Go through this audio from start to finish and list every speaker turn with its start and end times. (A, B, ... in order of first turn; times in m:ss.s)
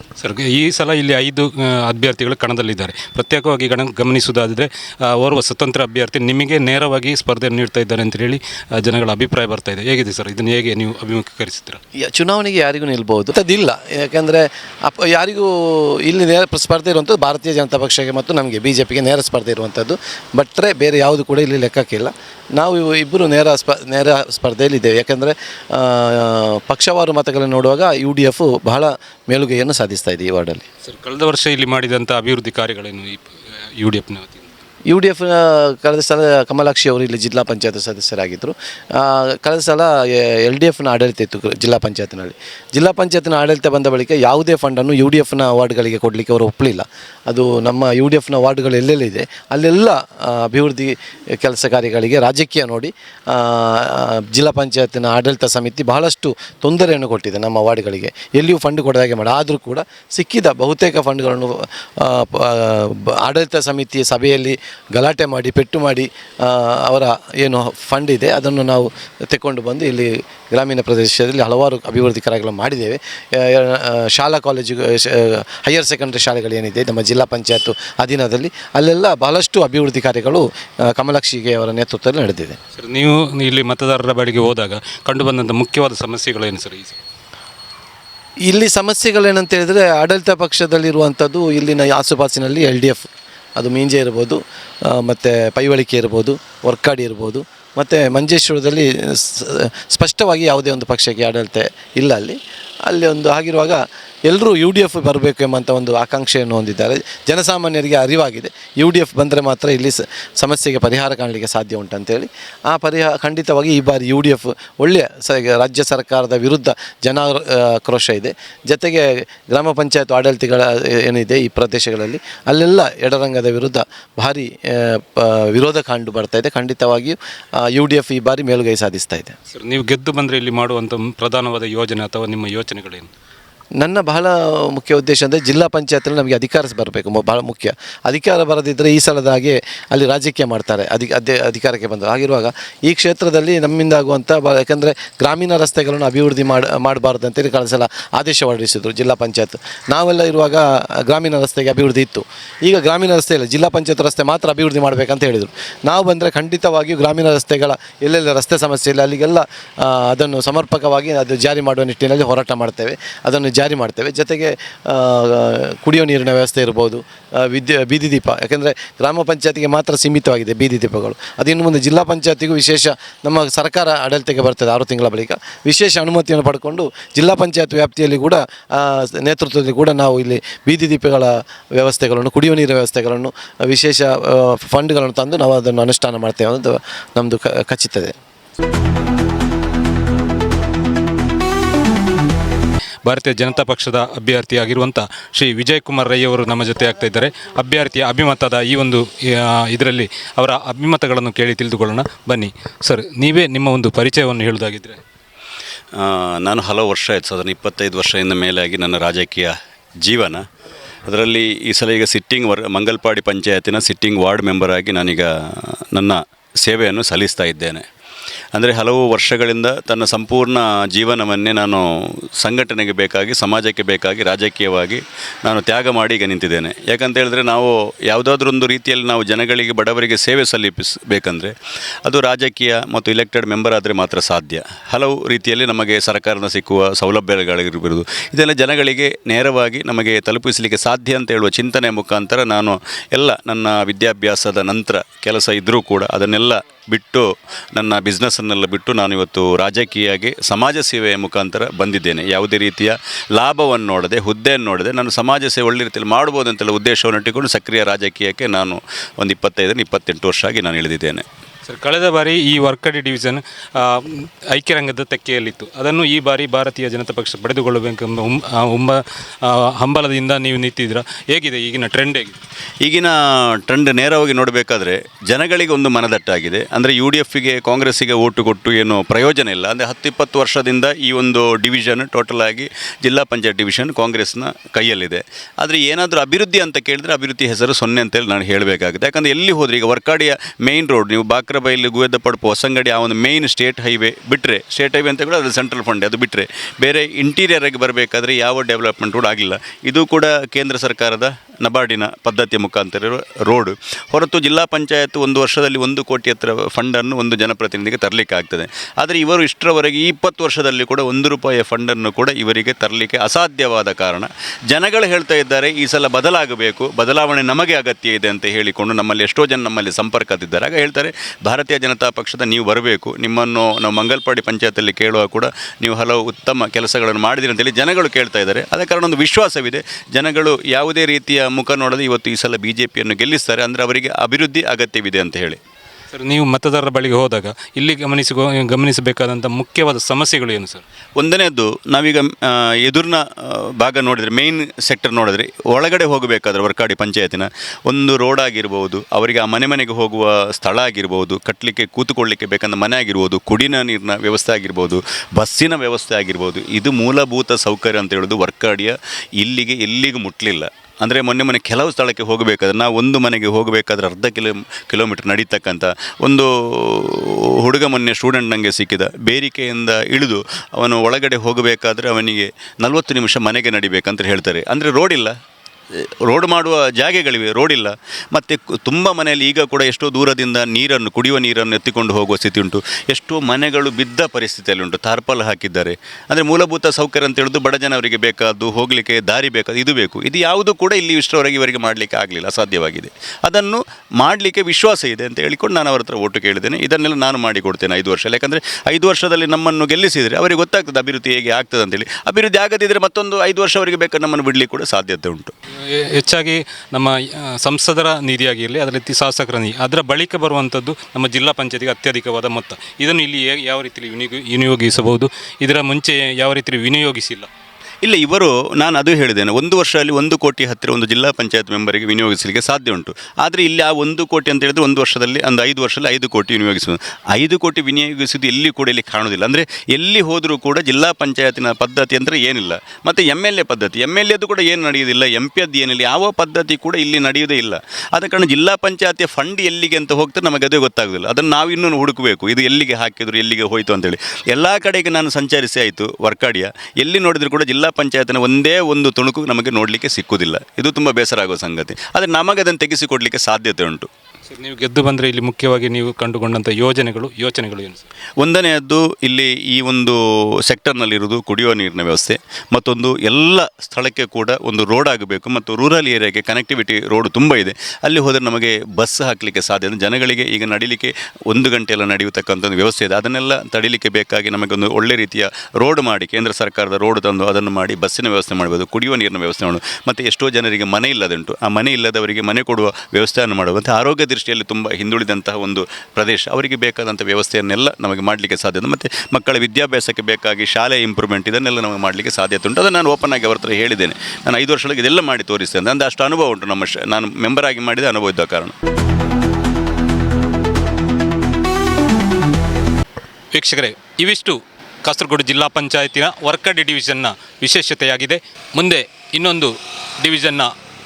0:00.2-0:11.8 A
0:12.0-0:30.6 B
0:30.8-0:34.5 A
0:34.9-1:22.6 B
1:22.8-1:27.0 A
1:28.5-2:09.3 B
2:09.5-2:13.1 A
2:13.8-3:08.1 B
3:13.0-3:25.0 A
3:26.0-3:29.5 C
3:30.0-3:30.4 C
3:31.0-3:37.8 C
3:38.5-3:41.8 C
3:42.4-4:21.2 C
4:21.6-4:32.4 A
4:32.8-5:35.6 C
5:36.1-5:40.8 A
5:41.2-6:15.3 C
6:16.2-6:45.5 C
6:46.1-6:57.5 A
6:58.0-7:34.1 C
7:34.5-7:38.0 A
7:38.4-8:18.7 C
8:23.5-8:30.7 A